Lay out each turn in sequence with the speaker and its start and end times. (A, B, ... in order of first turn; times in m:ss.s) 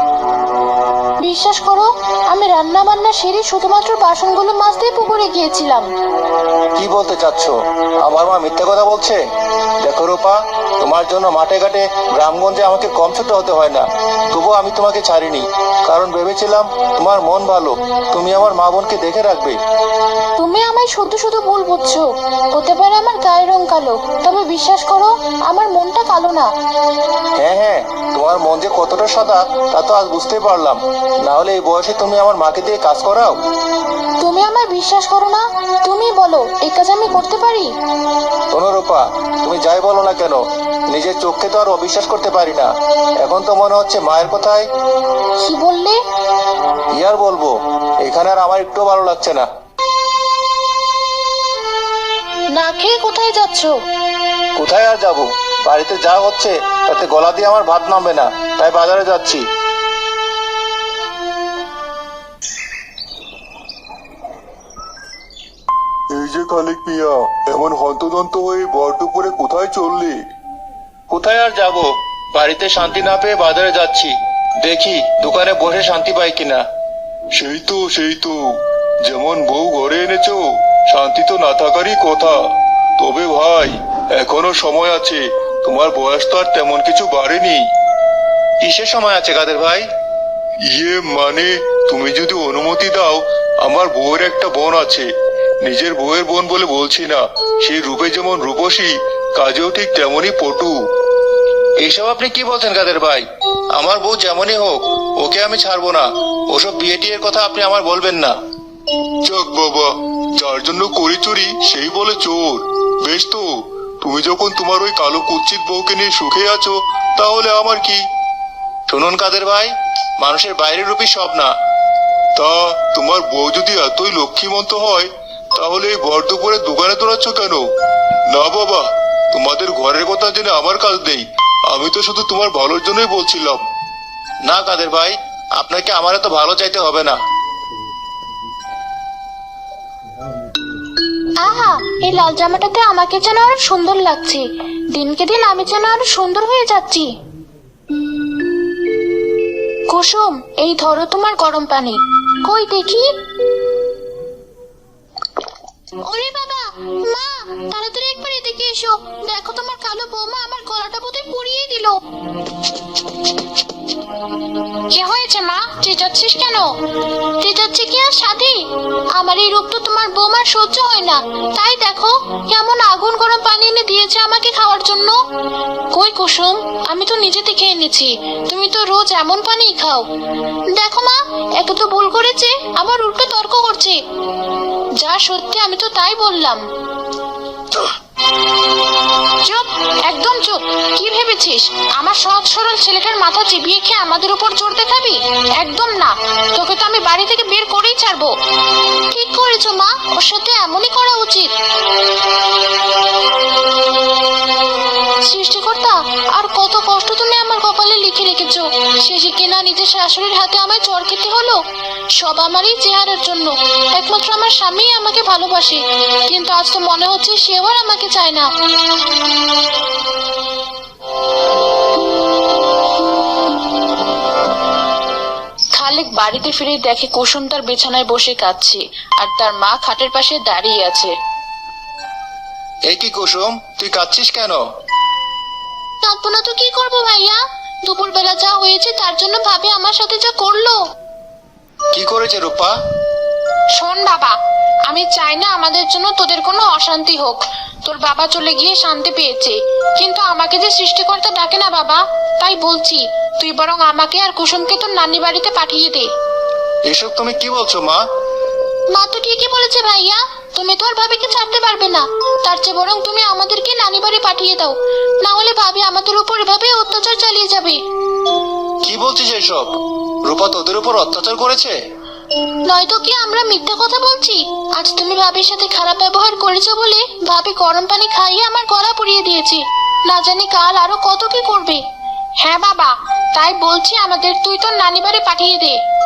0:01.2-0:05.9 A
0:06.8-0:09.2 B
0:09.8-0:19.6 B
0:20.4-0:26.5 A
0:27.4-0:33.4 B
0:34.2-0:37.7 A
0:38.5-0:44.7 B
0:45.4-0:46.0 A
0:47.0-0:49.5 B
0:52.5-0:53.7 A
0:54.6-0:59.4 B
1:06.1-1:10.2 C
1:11.1-1:16.6 B
1:17.3-1:22.4 C
1:23.0-1:27.7 C
1:28.6-1:29.8 B
1:30.7-1:35.1 C
1:35.6-1:40.7 C
1:41.8-1:48.3 B
1:49.2-1:58.0 C
1:58.9-2:01.5 B
2:02.4-2:07.6 C
2:08.3-2:13.6 C
2:14.4-2:17.2 B
2:21.4-2:27.1 A
2:29.9-2:33.1 A
2:36.0-2:42.0 A
2:44.9-2:46.7 A
2:47.4-2:48.6 A
2:49.2-2:55.2 A
2:55.9-3:00.0 A
3:00.7-3:04.0 A
3:05.0-3:06.6 A
3:09.4-3:18.3 A
3:19.1-3:21.5 A
3:25.2-3:31.6 A
3:32.1-3:38.5 A
3:45.8-3:51.1 A
3:52.9-3:54.6 B
3:56.0-4:00.8 A
4:01.9-4:02.7 B
4:03.8-4:04.4 A
4:04.9-4:16.1 A
4:16.9-4:18.0 B
4:18.9-4:27.8 A
4:28.8-4:29.7 B
4:30.2-4:31.8 B
4:32.7-4:41.8 A
4:42.4-4:45.8 A